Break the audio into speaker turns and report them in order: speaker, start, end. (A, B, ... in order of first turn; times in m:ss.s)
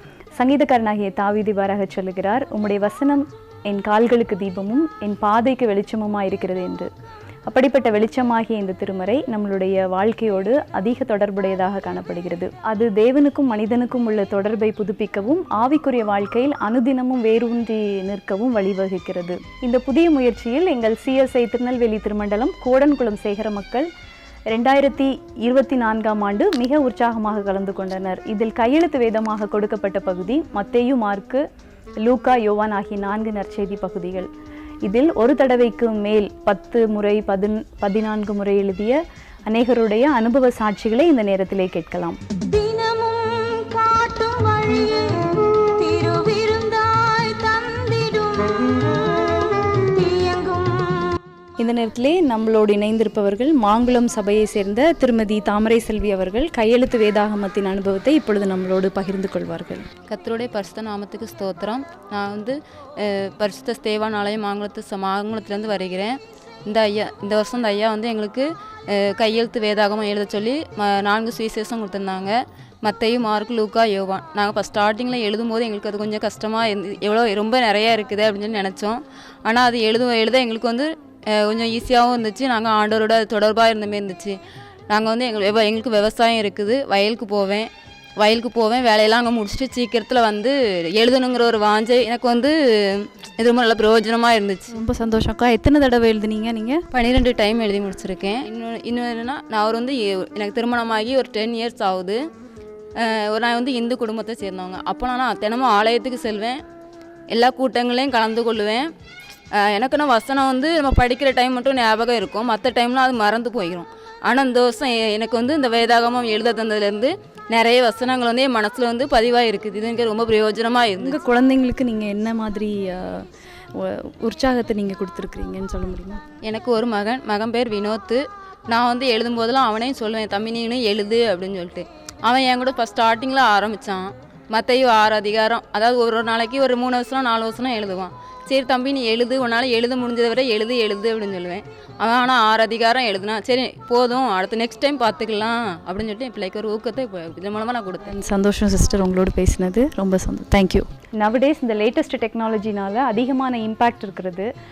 0:00.4-0:06.9 A
0:07.5-0:23.8 A
0:24.5-0:31.4 A
0:32.0-0:34.3 A
0:34.8-0:39.0 A
0:39.5-0:42.2 A
0:42.5-0:51.1 B
0:51.6-0:59.9 A
1:00.1-1:06.2 C
1:06.7-1:24.4 C
1:24.9-1:27.7 C
1:28.2-1:34.7 C
1:34.7-1:36.8 A
1:36.9-1:42.2 C
1:43.0-1:46.6 C
1:47.3-1:48.9 C
1:49.6-2:01.2 C
2:01.0-2:03.2 A
2:03.8-2:06.2 A
2:06.4-2:28.1 C
2:28.0-2:34.5 A